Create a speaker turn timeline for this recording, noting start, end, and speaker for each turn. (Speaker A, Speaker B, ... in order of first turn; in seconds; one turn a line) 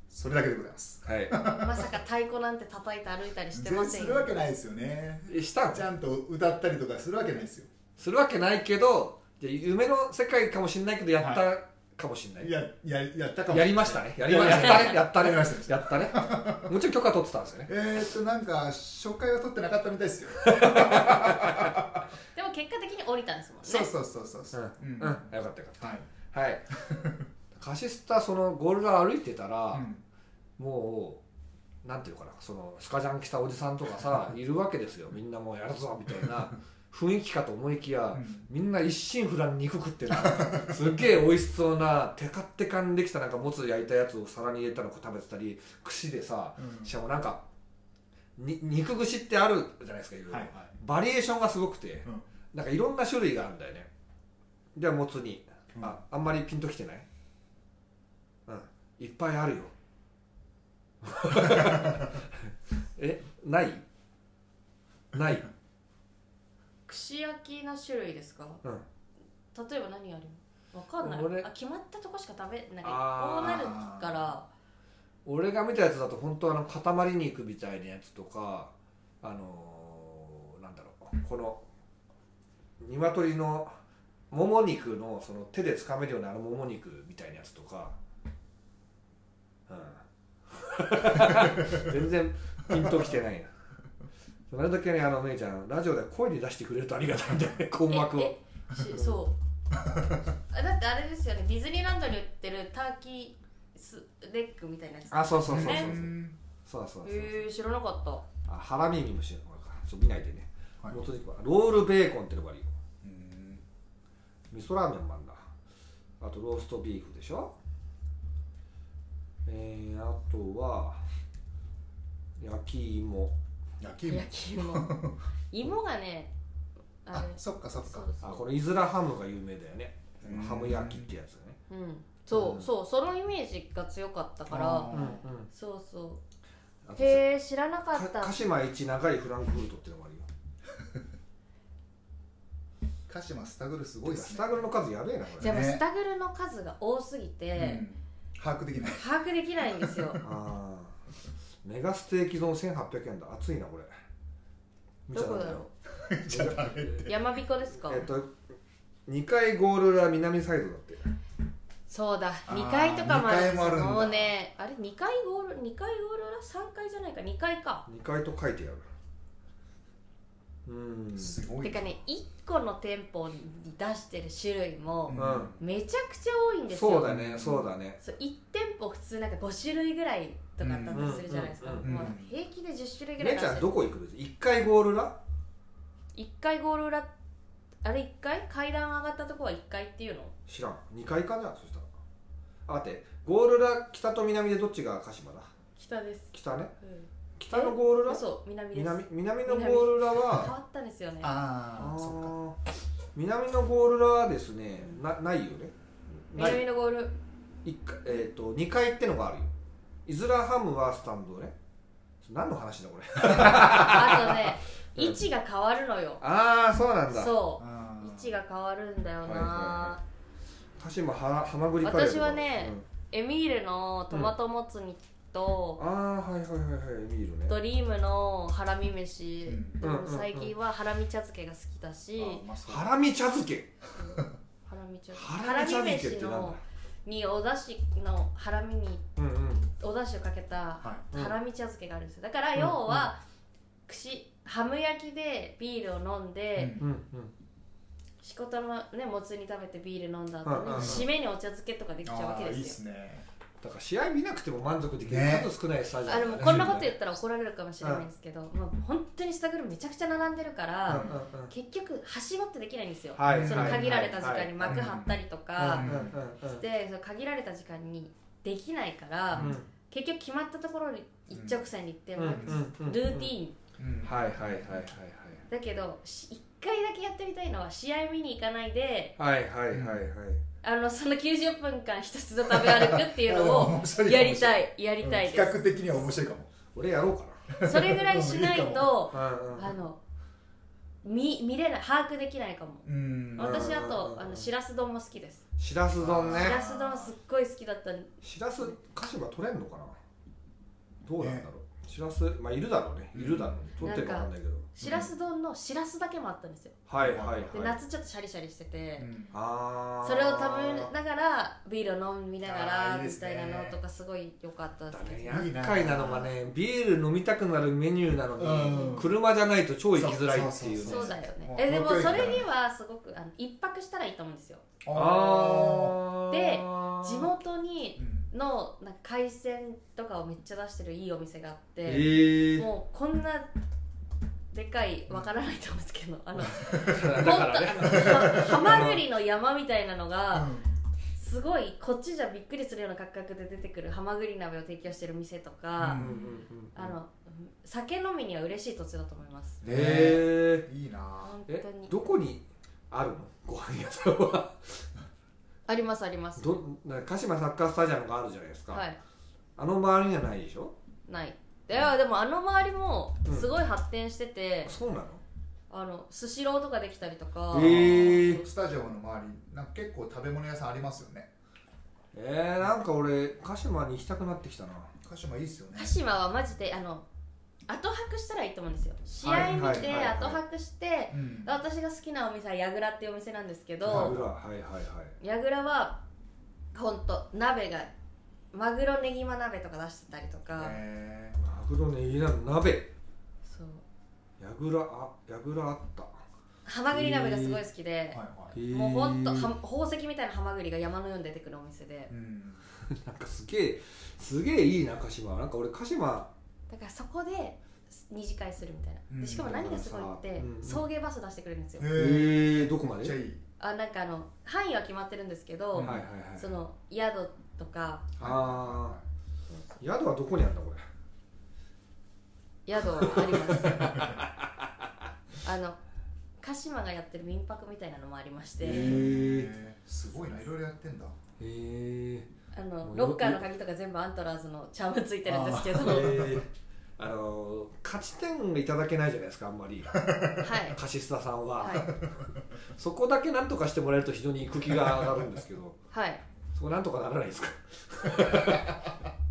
Speaker A: 0.1-1.9
Speaker B: 1.1-1.4
Speaker C: 1.4-4.4
Speaker A: 3.5-7.7
Speaker B: 5.3-5.9
Speaker B: 8.0-12.5
Speaker A: 11.2-11.4
Speaker A: 12.4-16.8
Speaker B: 13.5-17.7
Speaker A: 17.7-22.1
Speaker B: 20.4-21.8
Speaker C: 22.4-23.9
Speaker A: 23.6-26.1
Speaker B: 24.5-26.7
Speaker A: 26.7-27.3
Speaker B: 27.6-29.9
Speaker A: 29.7-30.0
Speaker B: 30.6-31.2
Speaker B: 31.8-47.4
Speaker A: 38.1-38.5
Speaker A: 40.1-40.9
Speaker A: 46.6-46.9
Speaker B: 48.4-53.9
Speaker A: 50.3-50.8
Speaker B: 54.8-57.1
Speaker B: 58.5-59.7
Speaker B: 61.0-62.3
Speaker B: 63.0-63.8
Speaker B: 65.1-65.5
Speaker C: 66.9-68.6
Speaker C: 69.5-74.5
Speaker B: 71.0-71.5
Speaker B: 72.8-73.8
Speaker A: 73.4-74.2
Speaker B: 75.2-81.6
Speaker B: 82.8-83.7
Speaker B: 84.3-88.0
Speaker B: 89.7-93.5
Speaker A: 91.5-91.8
Speaker B: 94.5-98.3
Speaker C: 97.9-99.4
Speaker B: 98.9-99.2
Speaker A: 99.7-100.2
Speaker C: 100.5-106.0
Speaker B: 105.1-106.2
Speaker A: 105.5-106.4
Speaker B: 106.7-107.5
Speaker C: 107.0-108.3
Speaker B: 108.5-112.7
Speaker A: 113.0-113.7
Speaker B: 114.5-115.4
Speaker B: 116.2-117.5
Speaker B: 119.5-121.0
Speaker B: 122.4-123.3
Speaker A: 123.8-125.2
Speaker C: 124.1-126.3
Speaker C: 127.0-128.4
Speaker A: 127.1-128.1
Speaker B: 128.2-131.6
Speaker A: 130.2-131.1
Speaker C: 131.7-136.2
Speaker B: 132.3-132.7
Speaker A: 134.5-135.2
Speaker B: 134.9-135.5
Speaker B: 136.8-137.2
Speaker C: 137.0-138.4
Speaker B: 137.9-140.3
Speaker A: 143.1-144.7
Speaker B: 144.1-145.6
Speaker A: 145.4-145.8
Speaker C: 145.4-147.9
Speaker A: 147.6-149.0
Speaker C: 148.9-150.2
Speaker A: 149.7-150.2
Speaker B: 150.2-150.9
Speaker B: 151.6-153.9
Speaker B: 155.1-155.6
Speaker C: 155.1-155.7
Speaker A: 156.0-157.1
Speaker B: 156.3-157.1
Speaker C: 157.0-158.1
Speaker B: 157.9-158.4
Speaker B: 159.1-161.1
Speaker C: 161.9-167.9
Speaker A: 162.5-164.3
Speaker B: 167.9-168.8
Speaker B: 170.7-171.4
Speaker A: 171.2-171.9
Speaker C: 171.6-177.1
Speaker A: 175.1-175.6
Speaker B: 175.1-175.6
Speaker B: 176.7-178.0
Speaker A: 177.1-177.7
Speaker C: 178.0-183.7
Speaker A: 180.6-181.2
Speaker B: 180.9-182.1
Speaker A: 181.8-182.3
Speaker B: 183.2-185.2
Speaker C: 186.2-187.1
Speaker C: 187.8-190.3
Speaker B: 190.5-191.9
Speaker B: 192.7-195.5
Speaker C: 195.8-201.3
Speaker B: 196.3-196.8
Speaker B: 197.4-200.5
Speaker A: 201.2-202.3
Speaker B: 201.8-202.6
Speaker B: 203.2-205.7
Speaker B: 206.3-206.6
Speaker C: 206.3-207.2
Speaker B: 207.6-209.5
Speaker B: 210.1-211.6
Speaker B: 212.2-215.2
Speaker C: 213.5-216.2
Speaker B: 216.2-217.4
Speaker C: 217.1-220.0
Speaker A: 217.6-218.4
Speaker B: 219.2-220.0
Speaker B: 220.8-222.8
Speaker C: 221.8-225.8
Speaker B: 225.8-227.6
Speaker C: 227.5-232.4
Speaker A: 229.5-229.8
Speaker B: 229.8-230.5
Speaker A: 232.2-232.9
Speaker B: 232.7-233.7
Speaker C: 234.0-239.0
Speaker B: 235.1-236.6
Speaker B: 239.2-239.7
Speaker C: 239.7-243.2
Speaker A: 240.8-241.1
Speaker B: 242.6-243.1
Speaker C: 243.9-246.8
Speaker A: 246.6-246.9
Speaker B: 246.8-247.3
Speaker C: 248.2-252.8
Speaker B: 250.4-251.1
Speaker A: 250.7-251.1
Speaker A: 252.1-253.3
Speaker B: 253.6-256.9
Speaker A: 255.0-255.5
Speaker C: 256.1-273.6
Speaker A: 256.4-256.8
Speaker A: 260.9-261.2
Speaker B: 260.9-261.5
Speaker B: 263.2-264.9
Speaker A: 263.2-266.2
Speaker B: 265.6-266.6
Speaker A: 269.3-269.6
Speaker B: 269.4-269.7
Speaker A: 271.3-271.6
Speaker B: 272.2-273.3
Speaker A: 272.3-272.6
Speaker A: 273.8-274.9
Speaker B: 274.0-275.4
Speaker C: 275.5-279.1
Speaker B: 279.2-280.4
Speaker A: 279.7-280.1
Speaker C: 280.6-285.6
Speaker A: 282.5-286.5
Speaker B: 286.7-287.4
Speaker A: 287.5-289.1
Speaker C: 287.6-290.0
Speaker B: 289.1-289.7
Speaker C: 291.0-295.4
Speaker A: 292.8-293.8
Speaker B: 293.4-294.5
Speaker B: 295.6-296.6
Speaker A: 296.0-297.1
Speaker C: 296.3-298.1
Speaker B: 298.2-300.0
Speaker B: 301.1-304.7
Speaker A: 301.2-301.5
Speaker A: 303.1-303.6
Speaker C: 303.8-306.8
Speaker A: 304.8-305.1
Speaker B: 306.9-307.8
Speaker A: 306.9-307.7
Speaker C: 307.5-309.1
Speaker A: 309.0-309.4
Speaker B: 309.3-310.9
Speaker C: 310.0-315.4
Speaker A: 312.4-313.8
Speaker B: 314.9-321.2
Speaker A: 315.3-316.3
Speaker A: 318.4-319.2
Speaker C: 318.7-319.0
Speaker A: 319.9-322.5
Speaker C: 320.9-324.6
Speaker A: 324.8-326.0
Speaker B: 324.9-327.3
Speaker C: 326.3-333.5
Speaker A: 328.0-328.3
Speaker B: 331.9-332.7
Speaker C: 334.5-340.5
Speaker A: 336.7-337.3
Speaker B: 336.7-339.0
Speaker A: 337.8-338.9
Speaker A: 340.3-340.7
Speaker C: 341.2-346.1
Speaker A: 345.8-346.4
Speaker B: 345.9-346.9
Speaker C: 346.8-349.6
Speaker A: 349.6-351.4
Speaker B: 349.6-350.7
Speaker C: 351.2-351.9
Speaker B: 351.5-354.9
Speaker C: 355.7-356.6
Speaker B: 356.4-358.9
Speaker C: 358.7-359.0
Speaker B: 359.6-360.7
Speaker C: 361.1-364.7
Speaker B: 363.3-363.6
Speaker B: 364.7-365.2
Speaker C: 365.7-368.4
Speaker B: 367.5-368.4
Speaker A: 368.0-371.3
Speaker B: 372.1-374.9
Speaker A: 375.0-376.0
Speaker C: 375.8-377.1
Speaker C: 377.7-384.2
Speaker B: 379.2-380.4
Speaker A: 379.3-380.0
Speaker A: 381.1-381.6
Speaker A: 383.8-384.3
Speaker B: 383.8-385.1
Speaker C: 385.2-386.0
Speaker C: 386.7-387.9
Speaker C: 388.5-390.8
Speaker A: 390.5-391.4
Speaker B: 391.4-392.9
Speaker C: 393.4-393.8
Speaker B: 394.4-396.1
Speaker C: 396.7-402.1
Speaker B: 396.9-397.6
Speaker A: 398.1-398.6
Speaker B: 398.5-399.5
Speaker A: 402.1-402.6
Speaker B: 402.9-406.3
Speaker C: 406.7-411.9
Speaker A: 409.1-409.8
Speaker B: 409.4-410.9
Speaker A: 411.8-413.4
Speaker B: 411.9-413.2
Speaker C: 413.6-418.1
Speaker A: 415.8-416.1
Speaker B: 415.8-416.5
Speaker A: 418.2-419.1
Speaker B: 418.2-419.0
Speaker C: 419.5-419.8
Speaker B: 419.8-420.8
Speaker C: 422.7-424.2
Speaker B: 423.0-424.3
Speaker A: 423.6-424.1
Speaker C: 425.4-425.8
Speaker C: 426.4-429.0
Speaker B: 428.6-429.5
Speaker A: 428.6-431.2
Speaker B: 431.4-432.3
Speaker C: 432.5-436.2
Speaker B: 432.8-433.4
Speaker A: 435.2-436.4
Speaker B: 435.8-442.0
Speaker A: 439.9-440.4
Speaker C: 440.4-440.8
Speaker C: 441.6-441.9
Speaker B: 442.7-445.8
Speaker A: 444.8-445.3
Speaker C: 445.9-446.2
Speaker B: 446.6-448.9